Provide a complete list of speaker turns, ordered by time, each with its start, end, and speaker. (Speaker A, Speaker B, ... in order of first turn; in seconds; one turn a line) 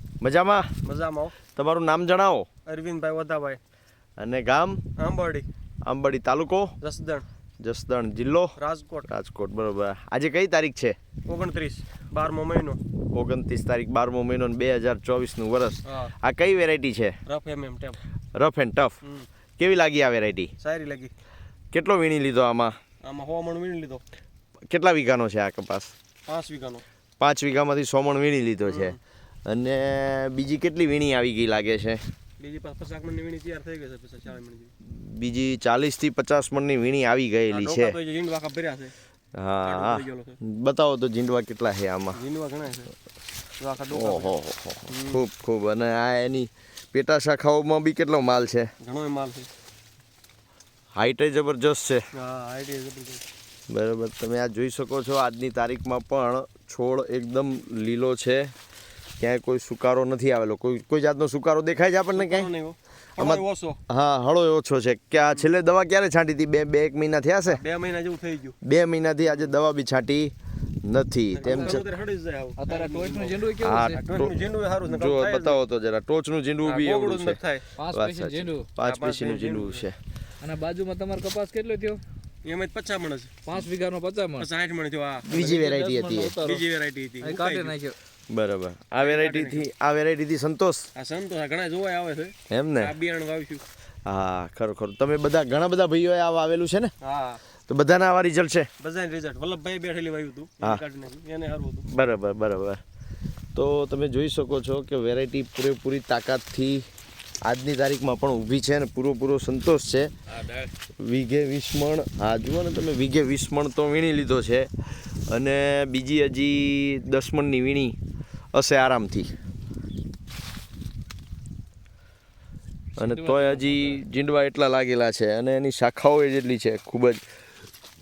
Speaker A: 0.2-0.7
Speaker B: 0.8-1.4
Speaker A: 1.5-2.5
Speaker B: 2.7-3.6
Speaker A: 4.2-4.8
Speaker B: 5.0-5.5
Speaker A: 5.8-6.7
Speaker B: 6.8-7.2
Speaker A: 7.6-8.6
Speaker B: 8.6-9.1
Speaker A: 9.1-11.0
Speaker B: 11.2-12.8
Speaker A: 13.0-17.1
Speaker B: 15.8-16.1
Speaker B: 17.3-18.0
Speaker A: 18.3-19.0
Speaker B: 19.0-19.3
Speaker A: 19.6-20.5
Speaker B: 20.6-21.1
Speaker A: 21.7-22.7
Speaker B: 23.0-24.0
Speaker A: 24.7-25.9
Speaker B: 26.2-26.8
Speaker A: 27.2-32.0
Speaker B: 28.6-29.0
Speaker B: 32.4-34.7
Speaker A: 34.8-38.0
Speaker B: 37.5-38.9
Speaker A: 39.3-42.2
Speaker B: 39.6-40.4
Speaker B: 42.1-42.9
Speaker B: 43.6-44.3
Speaker A: 43.9-48.7
Speaker B: 44.9-45.2
Speaker B: 48.8-49.5
Speaker A: 50.9-52.1
Speaker B: 52.1-53.2
Speaker A: 53.7-58.5
Speaker A: 59.2-62.5
Speaker B: 62.1-63.8
Speaker A: 63.2-67.6
Speaker B: 65.2-65.5
Speaker B: 67.5-68.6
Speaker A: 68.6-71.8
Speaker B: 69.2-69.5
Speaker B: 71.3-75.6
Speaker C: 71.4-71.8
Speaker C: 72.6-74.0
Speaker A: 73.6-74.3
Speaker A: 74.8-77.4
Speaker B: 76.6-77.7
Speaker C: 77.8-78.7
Speaker A: 77.9-80.0
Speaker B: 78.8-79.9
Speaker C: 80.4-82.0
Speaker B: 82.4-83.4
Speaker C: 83.5-84.5
Speaker B: 84.4-85.3
Speaker A: 85.2-86.4
Speaker C: 85.3-86.6
Speaker B: 86.4-87.8
Speaker C: 87.2-87.9
Speaker A: 88.3-90.9
Speaker B: 89.0-89.7
Speaker B: 90.9-93.6
Speaker A: 92.5-92.9
Speaker A: 94.0-96.9
Speaker B: 97.0-97.4
Speaker A: 97.6-98.7
Speaker B: 98.8-101.9
Speaker A: 101.9-102.8
Speaker A: 103.5-106.9
Speaker A: 107.4-118.0
Speaker A: 118.5-119.3
Speaker C: 123.0-124.0
Speaker A: 123.0-127.2